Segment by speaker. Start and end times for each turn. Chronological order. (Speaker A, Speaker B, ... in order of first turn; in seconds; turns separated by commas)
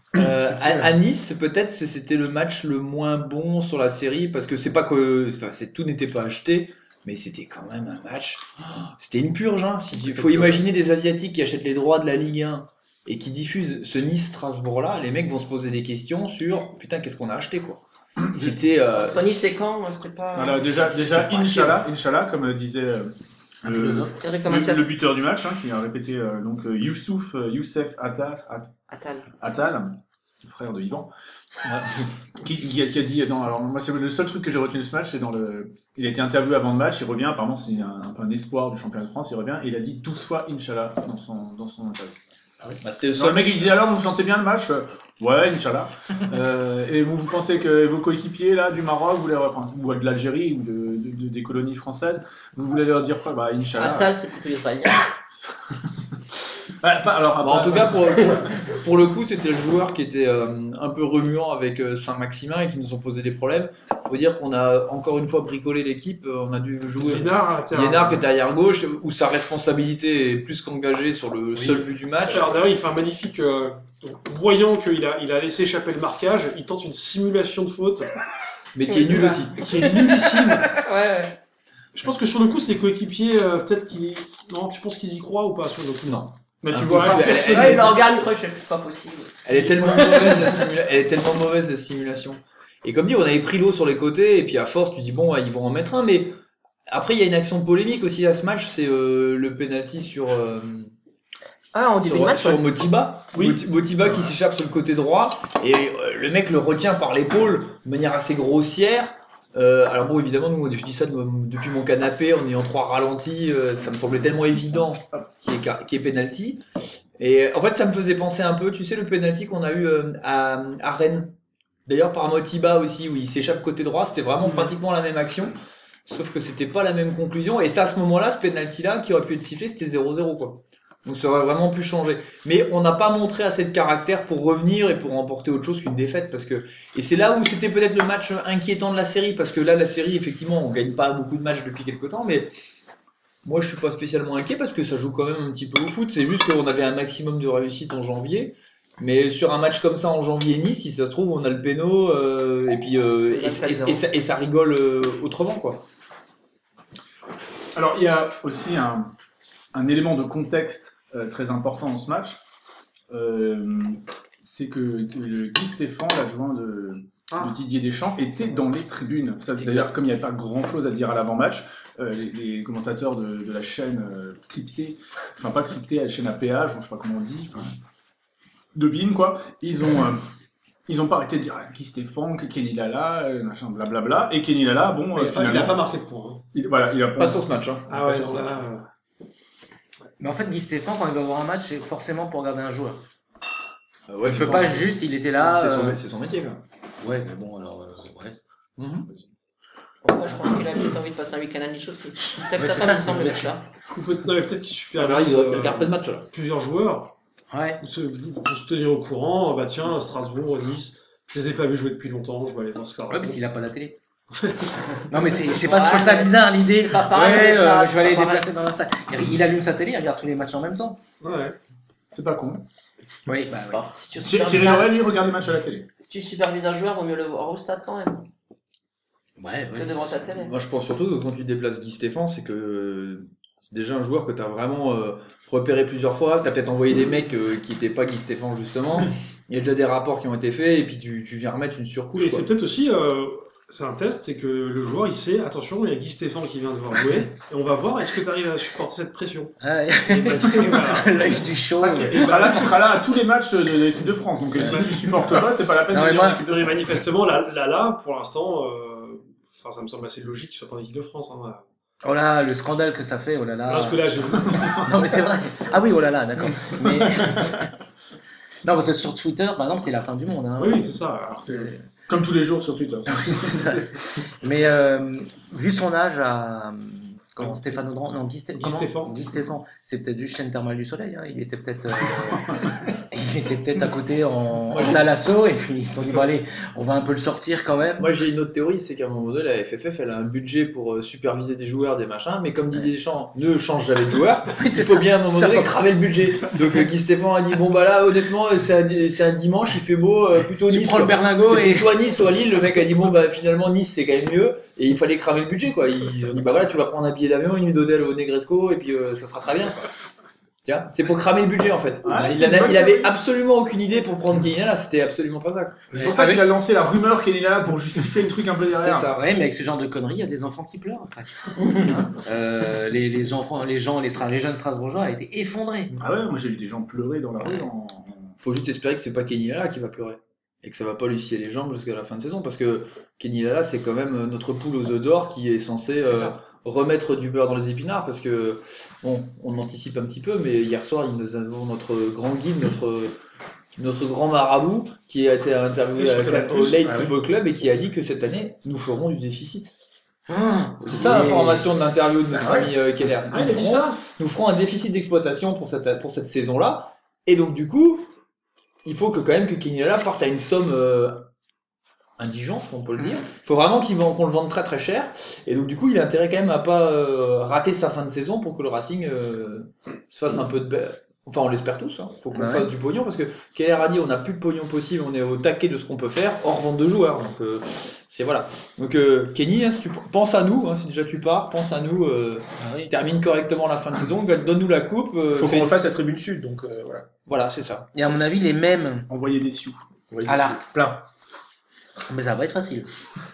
Speaker A: 0.1-19.5, Speaker B: 0.4-0.9, Speaker C: 19.0-21.1, Speaker D: 20.3-28.7, Speaker E: 23.6-24.1, Speaker C: 24.2-24.9, Speaker C: 28.9-29.3, Speaker D: 29.4-31.1, Speaker D: 31.7-42.1, Speaker A: 42.8-43.7, Speaker D: 43.1-54.1, Speaker C: 53.8-55.0, Speaker D: 56.8-58.4, Speaker A: 57.4-72.6, Speaker F: 67.0-68.2, Speaker F: 72.3-78.1, Speaker A: 78.7-79.6, Speaker C: 78.8-81.3, Speaker F: 79.6-80.7, Speaker F: 81.9-87.2, Speaker A: 86.0-88.0, Speaker D: 86.6-87.8, Speaker C: 86.9-90.7, Speaker A: 89.5-100.9, Speaker F: 89.6-90.1, Speaker C: 101.7-102.7, Speaker A: 102.0-116.6, Speaker F: 103.3-104.2, Speaker A: 117.2-121.3, Speaker A: 121.9-125.5, Speaker A: 126.0-142.5, Speaker A: 143.4-155.8, Speaker C: 153.3-154.0, Speaker D: 157.7-159.1, Speaker D: 159.7-162.4, Speaker D: 163.1-177.8, Speaker F: 167.3-167.5, Speaker D: 178.7-180.2, Speaker D: 180.9-185.8, Speaker F: 185.1-186.4, Speaker D: 186.5-187.4, Speaker A: 187.2-188.2, Speaker F: 187.9-188.8, Speaker B: 188.0-188.3, Speaker E: 190.2-193.0, Speaker A: 194.1-196.6, Speaker E: 194.2-196.0, Speaker E: 197.0-198.4, Speaker A: 198.8-199.1, Speaker C: 200.0-203.7, Speaker E: 202.5-203.6, Speaker F: 203.9-207.1, Speaker A: 204.9-206.3, Speaker E: 207.5-207.8, Speaker F: 207.8-213.4, Speaker E: 213.1-214.0, Speaker E: 215.1-221.0, Speaker C: 215.6-218.5, Speaker F: 221.2-221.6, Speaker D: 222.1-222.6, Speaker E: 223.2-223.8, Speaker C: 223.5-225.0, Speaker D: 224.2-225.9, Speaker C: 226.0-228.3, Speaker E: 229.4-230.1, Speaker C: 229.7-230.5, Speaker A: 230.3-242.4, Speaker F: 242.1-249.5, Speaker E: 249.6-252.7, Speaker F: 250.1-251.2, Speaker D: 251.8-256.7, Speaker F: 254.6-255.2, Speaker E: 255.9-256.4, Speaker F: 256.5-261.6, Speaker E: 262.0-267.7, Speaker F: 263.7-264.9, Speaker D: 264.5-264.9, Speaker D: 267.0-267.5, Speaker E: 268.6-271.8, Speaker F: 270.6-271.7, Speaker D: 272.1-273.7, Speaker E: 273.1-288.1, Speaker F: 278.6-279.1, Speaker A: 284.7-285.0, Speaker A: 288.0-309.9, Speaker E: 294.5-295.9, Speaker E: 300.5-302.0, Speaker A: 310.6-315.9, Speaker D: 312.0-312.9, Speaker E: 312.1-312.8, Speaker D: 315.9-319.1, Speaker E: 315.9-316.5, Speaker A: 318.8-319.1, Speaker E: 319.0-326.0, Speaker D: 326.0-328.3, Speaker E: 327.4-327.7, Speaker A: 328.4-343.1, Speaker E: 336.1-336.3, Speaker A: 343.8-349.7, Speaker F: 346.0-346.7, Speaker B: 346.7-347.1, Speaker E: 350.3-351.7, Speaker A: 350.8-358.1, Speaker B: 352.3-352.7, Speaker F: 353.3-354.0, Speaker A: 358.8-361.3, Speaker A: 362.2-385.7, Speaker E: 372.3-372.7, Speaker E: 382.6-382.9, Speaker B: 385.3-387.1, Speaker A: 387.3-387.9, Speaker E: 387.9-389.1, Speaker D: 389.1-389.9, Speaker B: 390.1-391.0, Speaker E: 390.2-390.6, Speaker E: 392.1-392.9